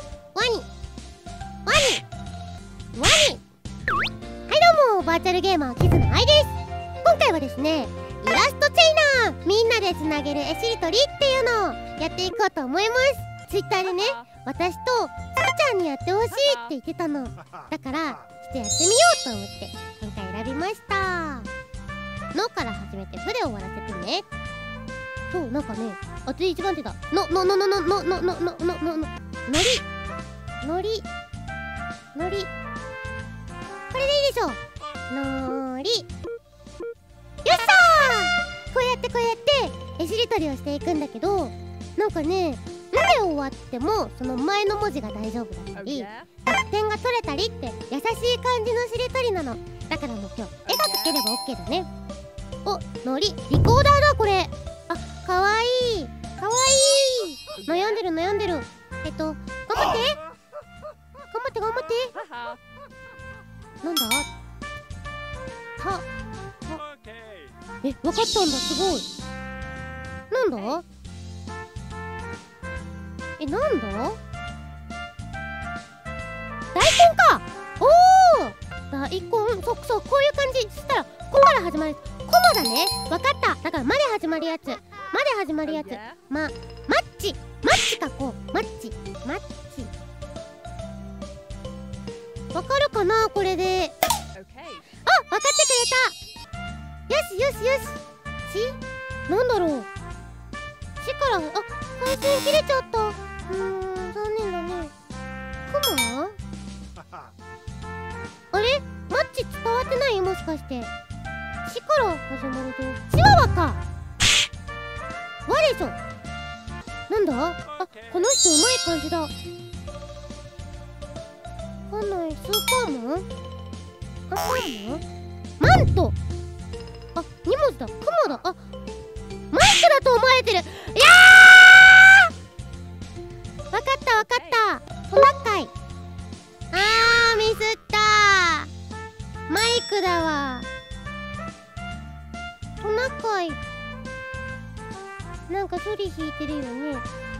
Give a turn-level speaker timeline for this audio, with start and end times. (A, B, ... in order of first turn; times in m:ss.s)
0:00.4-0:00.7 A
0:01.7-0:02.0 A
0:03.0-0:03.4 A
0:04.5-0:21.5 A
0:22.3-0:24.3 A
0:25.3-0:29.9 A
0:30.6-0:31.1 A
0:32.2-0:32.5 A
0:33.9-0:36.1 A
0:37.4-0:51.9 A
0:52.6-1:00.2 A
1:01.3-1:02.2 A
1:03.8-1:04.3 A
1:05.8-1:06.1 A
1:07.8-1:09.1 A
1:10.3-1:10.8 A
1:13.4-1:14.2 A
1:16.7-1:29.9 A
1:32.5-1:34.0 A
1:35.0-1:36.2 A
1:37.1-1:39.9 A
1:41.0-1:44.9 A
1:45.7-1:46.4 A
1:48.5-1:50.9 A
1:51.6-1:53.8 A
1:55.5-1:56.0 A
1:57.1-1:59.3 A
2:01.9-2:03.3 A
2:04.3-2:05.0 A
2:05.6-2:06.2 A
2:07.2-2:08.6 A
2:09.5-2:12.3 A
2:13.7-2:15.7 A
2:16.7-2:18.7 A
2:19.5-2:20.7 A
2:22.8-2:23.6 A
2:25.5-2:27.1 A